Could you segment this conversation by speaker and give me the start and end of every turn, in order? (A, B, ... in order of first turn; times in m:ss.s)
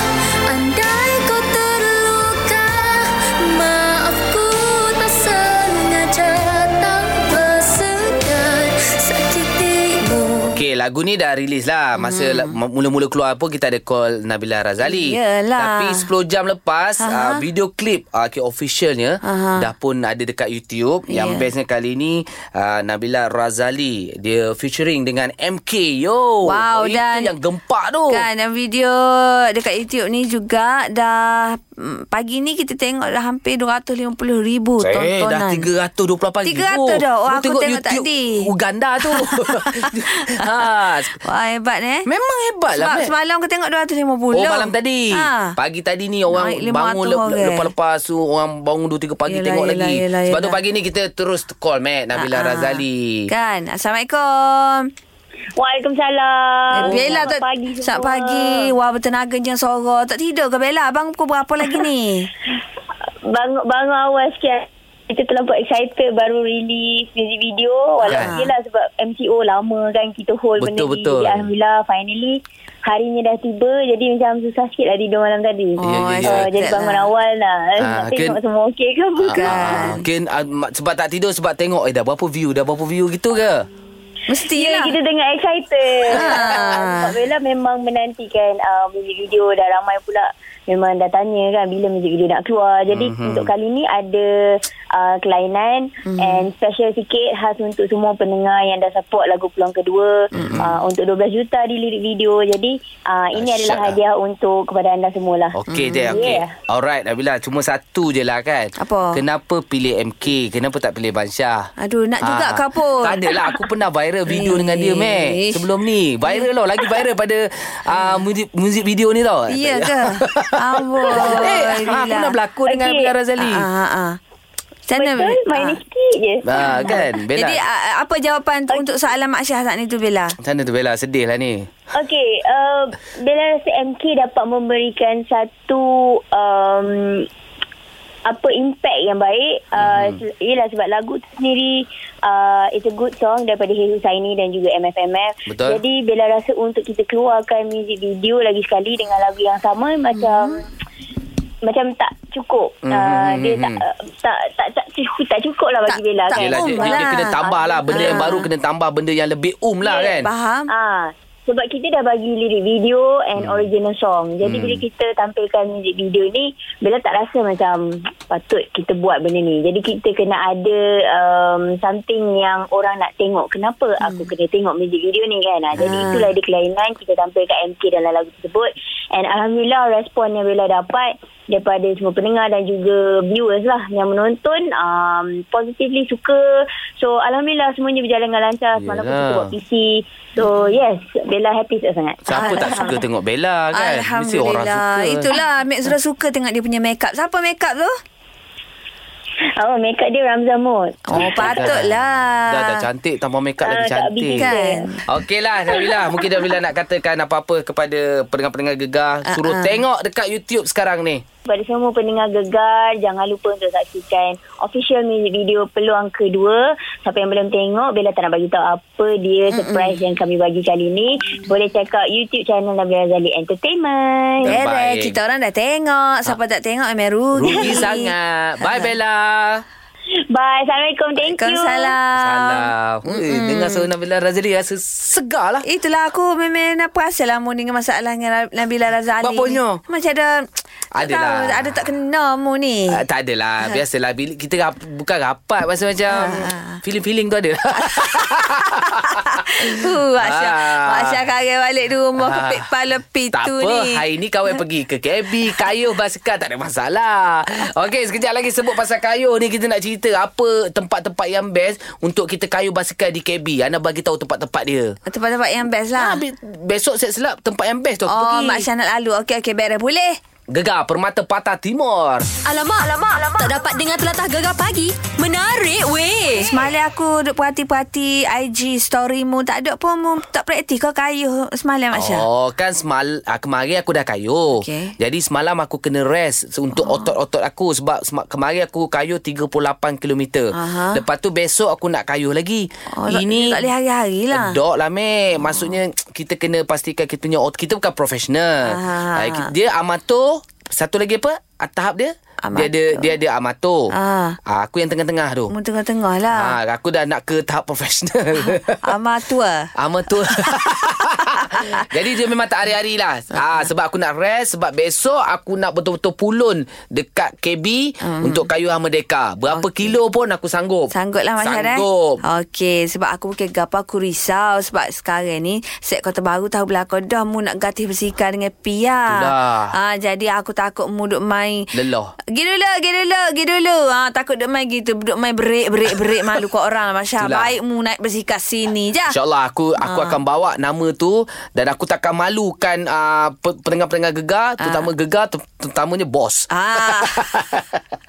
0:00.5-0:10.5 A
0:10.5-0:28.3 B
0:12.0-0:12.6 C
0:14.8-0:16.1 C
0:17.0-0:17.4 C
0:19.2-0:19.7 C
0:21.1-0:21.5 C
0:26.5-0:27.3 C
0:28.1-0:35.7 C
0:34.8-0:41.2 B
0:36.4-0:38.4 C
0:39.1-0:40.5 C
0:41.2-0:42.1 C
0:42.1-0:43.1 B
0:42.7-0:45.6 C
0:44.3-0:53.3 B
0:46.3-0:47.7 C
0:49.3-0:50.6 C
0:52.2-0:54.9 C
0:55.6-0:58.7 D
0:56.7-1:02.3 C
0:56.8-0:57.2 B
1:03.3-1:19.6 D
1:08.1-1:08.5 C
1:08.1-1:08.4 B
1:10.6-1:11.5 B
1:15.8-1:17.1 C
1:15.8-1:16.5 B
1:17.8-1:18.4 B
1:19.2-1:23.7 B
1:19.3-1:20.0 C
1:24.3-1:25.0 C
1:24.5-1:45.6 D
1:26.1-1:27.1 C
1:26.1-1:26.5 B
1:32.9-1:33.5 B
1:36.0-1:36.4 C
1:40.3-1:40.7 B
1:43.3-1:44.0 B
1:45.5-1:51.7 B
1:45.7-1:46.3 C
1:46.1-1:46.5 D
1:48.8-1:49.2 C
1:51.8-1:53.6 C
1:52.2-2:03.7 B
1:54.3-1:55.6 C
1:57.9-1:58.2 C
1:59.5-2:02.4 C
2:01.2-2:01.5 D
2:02.7-2:03.1 D
2:03.4-2:04.2 C
2:04.9-2:05.8 C
2:05.0-2:07.1 D
2:06.5-2:07.6 B
2:06.6-2:10.4 C
2:10.4-2:11.7 B
2:11.9-2:17.3 D
2:18.3-2:30.6 D
2:19.8-2:20.2 B
2:25.5-2:25.8 B
2:30.2-2:30.6 C
2:31.6-2:38.3 D
2:32.9-2:33.8 B
2:35.9-2:37.4 C
2:36.4-2:40.3 B
2:37.9-2:38.5 C
2:39.8-2:40.1 D
2:40.2-2:40.7 C
2:40.7-3:13.0 D
2:43.4-2:43.7 B
2:44.4-2:44.8 B
2:54.0-2:54.3 C
2:55.8-2:56.3 C
3:08.8-3:09.5 B
3:12.3-3:15.3 B
3:12.3-3:13.0 C
3:13.7-3:17.9 C
3:19.6-3:21.7 D
3:21.1-3:22.8 C
3:21.1-3:24.5 B
3:23.6-3:24.9 D
3:24.4-3:25.0 C
3:25.1-3:31.2 B
3:25.8-3:26.5 D
3:29.3-3:29.8 C
3:31.5-3:44.5 D
3:39.6-3:40.0 C
3:44.4-3:45.2 B
3:44.4-3:48.1 C
3:47.4-3:49.6 B
3:48.6-3:48.9 C
3:50.3-3:52.0 D
3:51.2-3:53.9 C
3:52.2-3:55.6 B
3:55.6-4:00.4 C
3:59.2-3:59.8 B
4:01.0-4:01.8 B
4:01.0-4:03.0 C
4:02.9-4:08.8 B
4:06.1-4:06.8 C
4:07.8-4:14.0 C
4:09.8-4:11.2 B
4:12.2-4:12.7 B
4:13.3-4:25.0 B
4:25.1-4:26.2 C
4:26.0-4:28.7 B
4:28.1-4:30.2 C
4:30.5-4:32.3 B
4:32.4-4:36.5 E
4:36.4-4:42.3 C
4:41.9-4:53.7 B
4:44.6-4:44.9 C
4:46.8-4:47.1 C
4:50.5-4:51.0 C
4:52.9-4:54.6 C
4:54.3-5:03.9 B
4:55.4-4:55.8 C
4:58.7-4:59.5 C
5:02.4-5:03.1 C
5:03.9-5:04.4 C
5:04.5-5:05.5 B
5:05.5-5:06.6 C
5:06.4-5:08.9 B
5:08.4-5:09.7 C
5:09.8-5:20.9 B
5:10.3-5:11.8 C
5:18.0-5:18.5 C
5:19.5-5:19.9 C
5:20.9-5:31.7 C
5:21.4-5:22.2 B
5:29.1-5:29.7 B
5:31.7-5:32.1 B
5:32.3-5:39.1 C
5:37.2-5:37.5 B
5:39.1-5:47.8 B
5:39.8-5:40.2 C
5:44.6-5:44.9 C
5:46.5-5:47.3 C